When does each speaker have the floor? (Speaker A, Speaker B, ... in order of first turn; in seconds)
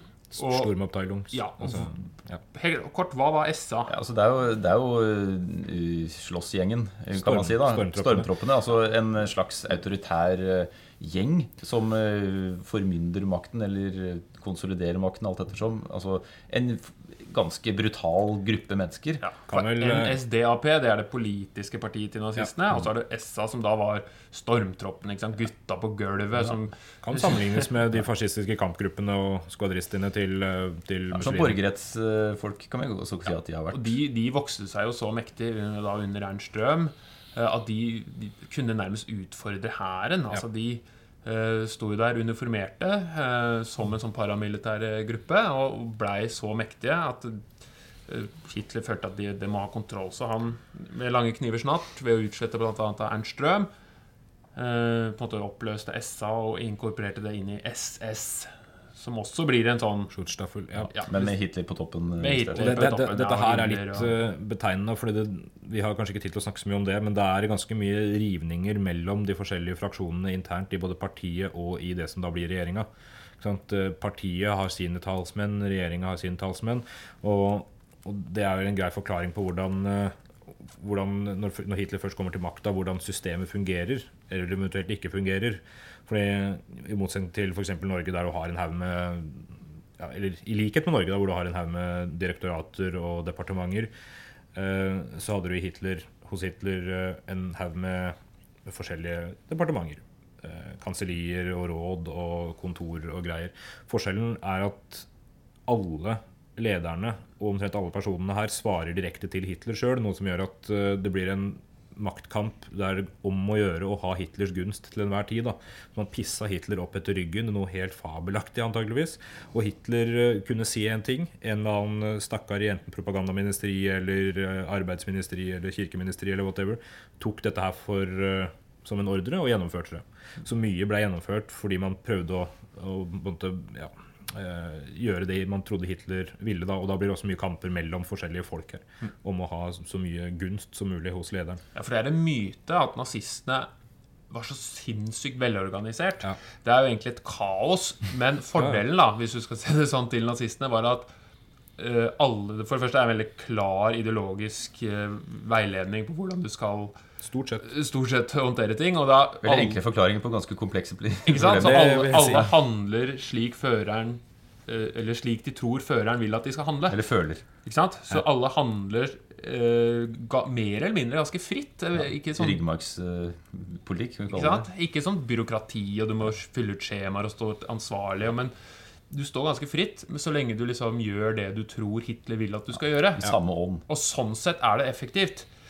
Speaker A: 0.3-2.4, 7.2-8.3, 19.5-20.2, 27.0-31.6, 60.1-60.9, 62.6-72.9, 73.4-80.2, 80.7-93.9, 94.5-105.1, 105.7-141.6, 157.2-157.7, 161.4-162.5
Speaker B: 0.4-0.7, 1.3-3.9, 19.2-27.6, 33.7-47.5, 48.1-53.7, 54.5-60.1, 60.9-61.3, 62.2-64.1, 141.8-143.7, 144.3-151.1, 151.8-156.9, 157.6-159.8, 161.3-167.0, 167.6-172.6, 174.3-178.5, 179.1-183.3, 183.9-185.5
Speaker C: 3.9-19.2, 31.1-34.0, 61.0-62.8, 159.4-162.5, 166.9-167.4, 172.3-174.7, 183.1-183.8